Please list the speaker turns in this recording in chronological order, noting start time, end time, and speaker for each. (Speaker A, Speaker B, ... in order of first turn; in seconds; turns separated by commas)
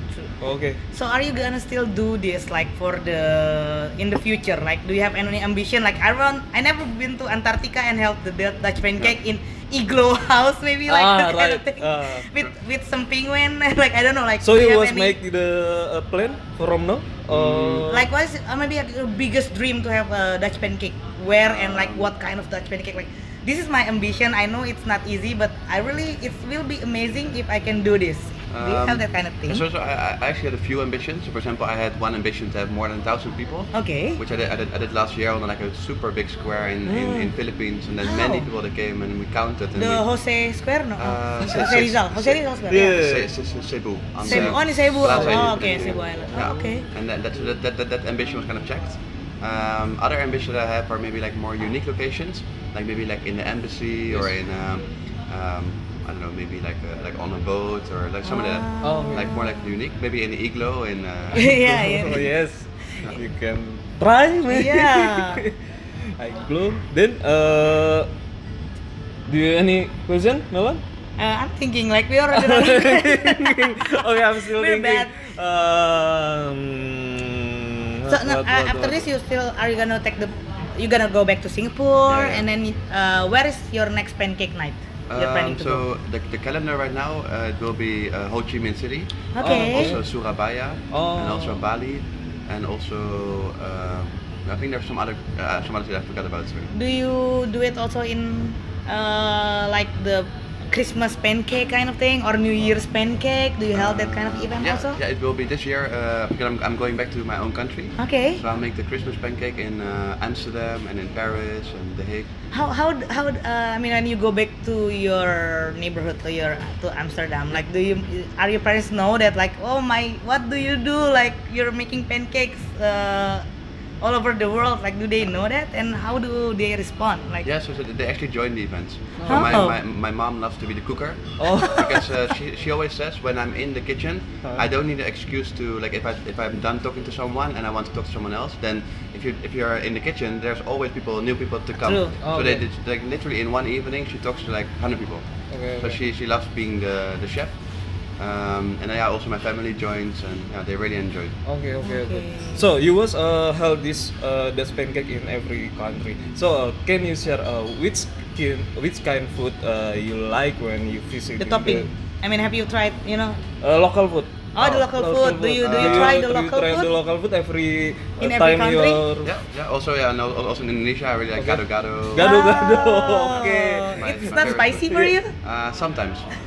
Speaker A: 0.4-0.8, Speaker B: 0.9-15.2, Speaker A: 10.9-12.3, Speaker A: 14.4-18.1, Speaker C: 17.3-17.9, Speaker B: 17.9-29.6, Speaker C: 21.4-22.1, Speaker C: 28.5-40.0, Speaker B: 33.7-34.2, Speaker A: 36.8-37.3, Speaker B: 38.0-38.5, Speaker B: 39.8-43.0, Speaker C: 41.0-61.5, Speaker A: 42.7-43.3, Speaker B: 44.2-46.9, Speaker A: 44.2-46.4, Speaker B: 58.2-59.7, Speaker A: 58.8-59.3, Speaker B: 61.3-62.2, Speaker A: 61.5-65.5, Speaker B: 64.5-65.5, Speaker A: 66.2-68.1, Speaker A: 69.3-70.8, Speaker B: 71.2-75.2, Speaker A: 72.3-79.0, Speaker B: 78.1-85.8, Speaker C: 82.1-82.5, Speaker C: 85.1-96.7, Speaker B: 89.3-90.0, Speaker A: 89.4-90.0, Speaker A: 90.9-91.6, Speaker B: 96.7-105.0, Speaker C: 103.7-112.3, Speaker B: 108.0-108.4, Speaker B: 112.5-123.4, Speaker B: 124.0-127.5, Speaker C: 127.4-147.6, Speaker A: 129.2-129.6, Speaker B: 129.3-129.8, Speaker A: 131.4-132.0, Speaker B: 141.8-142.2, Speaker A: 142.2-142.6, Speaker A: 145.5-146.0, Speaker C: 148.2-151.3, Speaker A: 151.5-161.9, Speaker B: 151.8-152.7, Speaker B: 161.4-163.4, Speaker A: 163.6-169.3, Speaker B: 164.5-166.9, Speaker C: 165.6-166.2, Speaker B: 168.2-169.0, Speaker C: 169.2-172.5, Speaker A: 171.4-175.1, Speaker B: 172.2-175.3, Speaker C: 173.3-176.3